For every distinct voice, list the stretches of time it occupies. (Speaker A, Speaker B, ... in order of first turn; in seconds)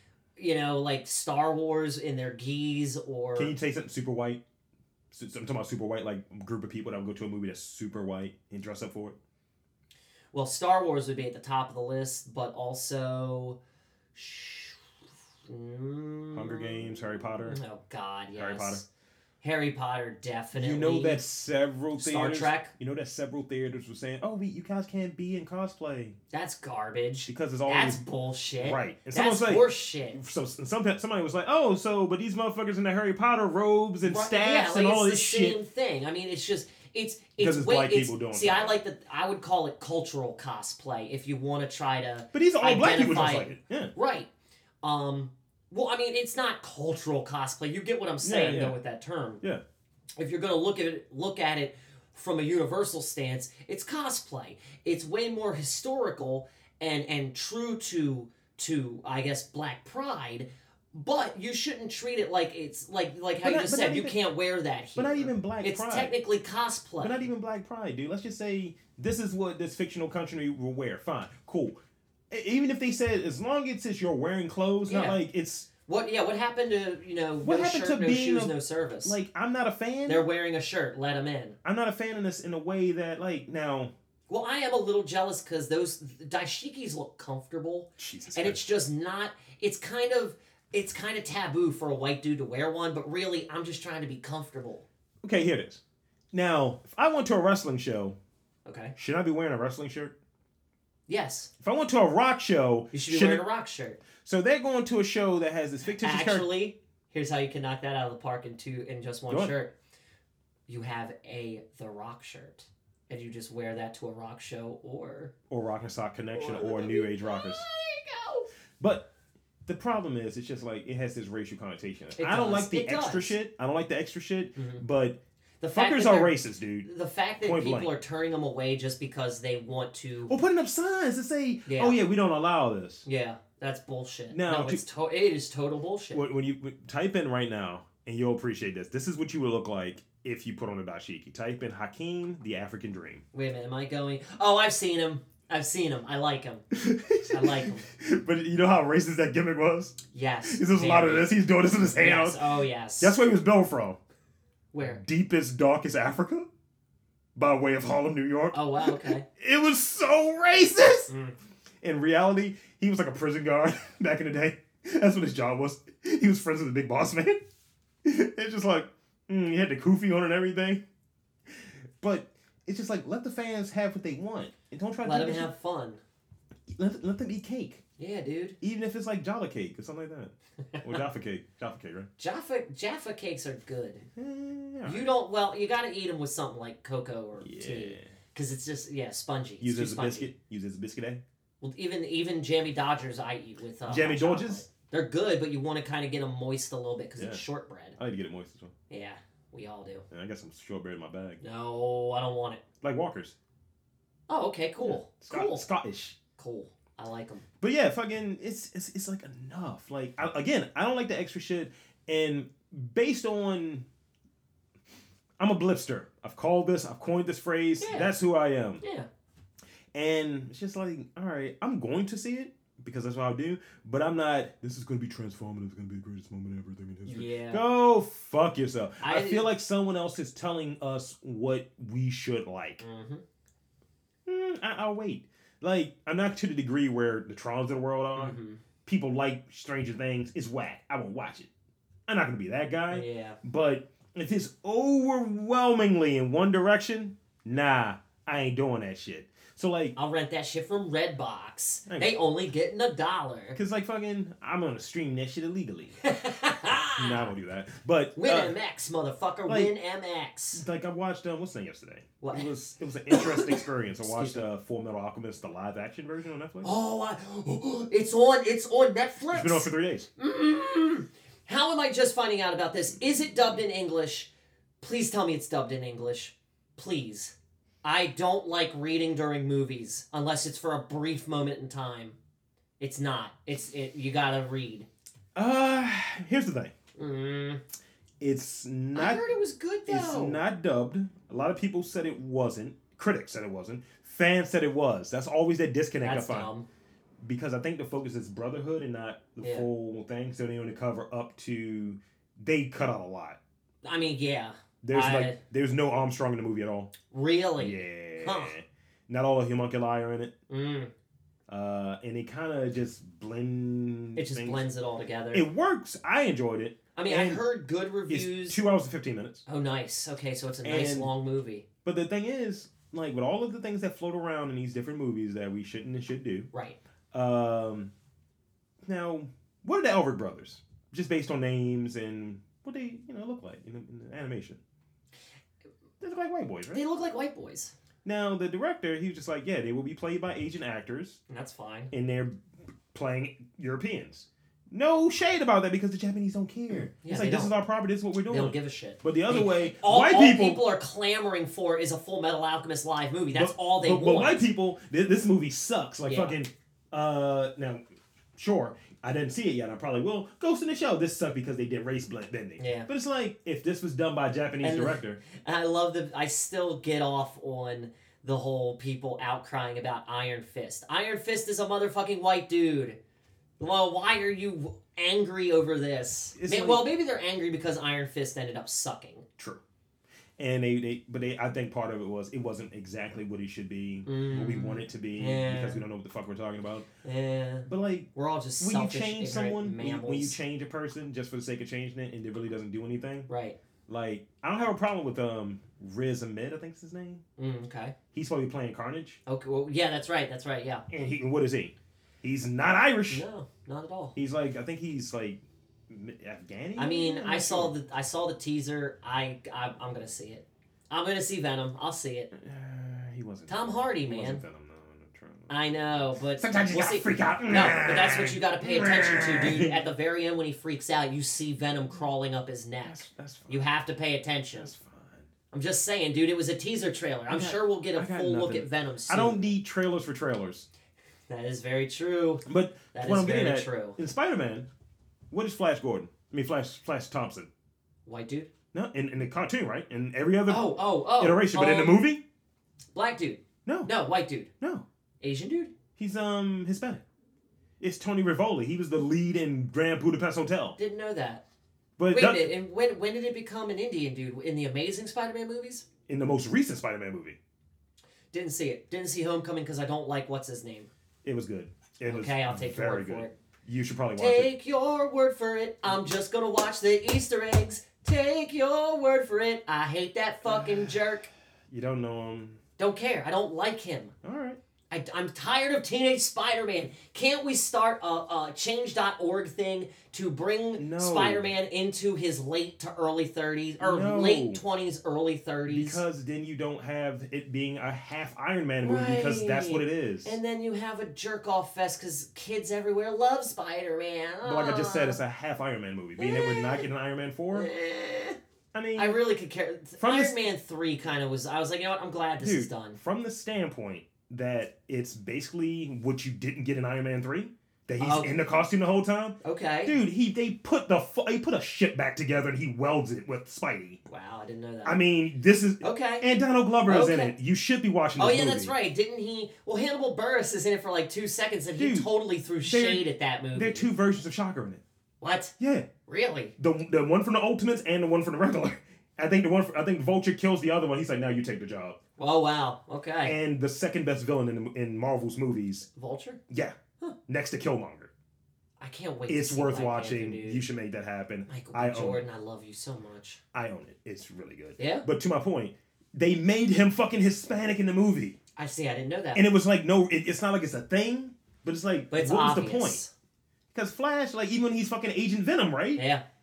Speaker A: 0.4-3.5, 10.3-13.6, 14.1-14.8, 15.5-16.9, 17.4-18.8, 19.4-21.2, 21.9-22.7, 26.3-30.2, 34.0-44.3, 44.8-49.4, 50.2-67.3, 74.8-75.2, 75.9-79.2, 80.1-81.5, 84.3-94.8, 98.7-98.9, 101.1-101.5, 102.9-104.0, 106.0-109.7, 110.7-115.3, 116.3-118.5, 122.2-123.3, 124.5-124.8, 125.6-130.3, 131.7-132.0, 133.0-136.2, 143.3-146.6, 147.3-147.8, 150.1-151.3, 151.9-153.2, 154.7-155.0, 158.5-159.2, 161.1-161.3, 175.0-176.0, 178.0-178.6, 180.7-181.0, 182.2-184.1, 184.8-190.3, 191.6-198.0, 198.9-200.0, 201.4-202.6, 204.3-205.7, 206.4-207.4, 217.8-218.2, 218.8-219.1, 227.1-227.6, 229.0-229.5, 232.8-233.2, 238.2-238.6, 242.9-243.4, 249.9-253.6, 256.0-257.3, 258.1-260.6, 262.2-262.5, 263.1-264.4, 266.6-274.3, 274.8-282.2, 282.8-284.9, 287.0-287.6, 288.9-290.4, 296.0-296.6, 299.4-299.7, 303.8-305.4, 307.1-308.5, 310.5-310.9, 314.1-315.4, 316.9-318.6, 319.4-321.6, 326.5-326.8, 336.7-337.7, 341.3-341.9, 347.0-347.5, 348.2-354.4, 356.1-356.4, 362.6-362.9, 364.6-373.0, 373.6-379.2, 384.0-385.8, 387.0-390.4, 393.3-393.6, 397.4-397.9, 399.2-400.8, 403.1-404.1, 406.8-412.3, 413.5-414.4, 415.5-424.7, 425.5-429.5, 431.3-434.0, 438.1-438.5, 440.5-442.0, 442.9-444.5, 445.2-445.7, 450.8-451.4, 452.1-455.8, 458.3-460.9, 462.0-463.3, 464.2-471.3, 472.8-474.1, 474.9-486.0, 488.8-495.2, 496.2-496.9, 497.5-498.4, 498.9-503.0, 508.0-508.4, 509.4-510.0, 514.1-515.0, 515.8-516.2, 516.9-517.3, 518.2-523.9, 525.2-525.5, 526.0-526.5, 532.2-533.3, 535.9-536.4, 538.8-540.6, 541.5-543.4, 544.8-545.1, 548.5-549.5, 552.1-553.1, 555.9-556.2
Speaker B: 3.4-4.4, 5.1-9.2, 16.3-17.6, 18.3-18.8, 20.5-26.2, 27.2-28.0, 28.6-35.6, 37.4-38.8, 42.3-43.9, 48.2-48.8, 63.4-64.2, 65.0-66.1, 67.0-71.8, 72.3-75.7, 77.4-80.2, 81.6-83.9, 88.0-88.6, 95.2-95.8, 96.3-98.2, 99.0-100.1, 101.6-103.4, 104.2-106.5, 109.3-109.5, 115.5-117.7, 118.8-119.1, 119.7-125.2, 125.7-126.9, 127.4-127.9, 130.3-133.0, 134.3-134.8, 136.1-143.2, 146.7-152.4, 153.0-154.0, 154.8-156.5, 157.3-161.1, 161.8-167.4, 168.0-170.8, 171.5-175.5, 176.7-177.8, 178.6-182.1, 184.2-185.1, 187.4-188.1, 189.6-191.2, 193.8-194.6, 197.2-197.4, 198.0-198.7, 200.1-201.4, 202.8-203.3, 204.8-206.2, 207.6-213.8, 215.4-218.8, 219.9-232.8, 234.2-241.5, 242.1-249.9, 251.9-252.1, 253.5-256.0, 257.0-258.6, 259.5-259.7, 260.5-266.7, 269.3-270.1, 285.3-286.7, 288.2-289.3, 289.9-296.5, 297.2-303.4, 304.8-306.9, 307.6-310.3, 311.5-314.6, 315.3-317.4, 318.1-319.4, 320.6-321.1, 321.8-326.5, 327.1-327.9, 328.8-334.6, 336.0-336.8, 338.0-341.2, 341.9-342.3, 342.9-350.6, 353.3-357.8, 358.4-365.2, 376.3-376.9, 380.4-386.9, 387.6-388.1, 388.6-393.3, 393.9-397.2, 398.1-399.2, 400.9-403.2, 404.1-407.7, 412.3-415.5, 416.4-419.8, 422.8-423.7, 424.5-425.3, 427.3-430.7, 432.4-434.7, 435.3-437.5, 438.7-442.2, 443.6-443.9, 446.0-447.0, 447.8-450.8, 452.0-452.5, 456.1-457.4, 461.2-464.5, 470.4-470.9, 471.7-472.6, 474.2-474.6, 480.8-481.5, 483.8-484.6, 485.7-490.4, 494.4-497.7, 498.7-499.2, 500.0-500.4, 502.4-514.0, 514.8-518.7, 521.8-522.1, 522.6-524.8, 525.6-525.9, 526.6-532.0, 533.2-535.9, 536.5-538.1, 539.3-542.2, 543.5-548.4, 549.3-553.0, 553.7-556.0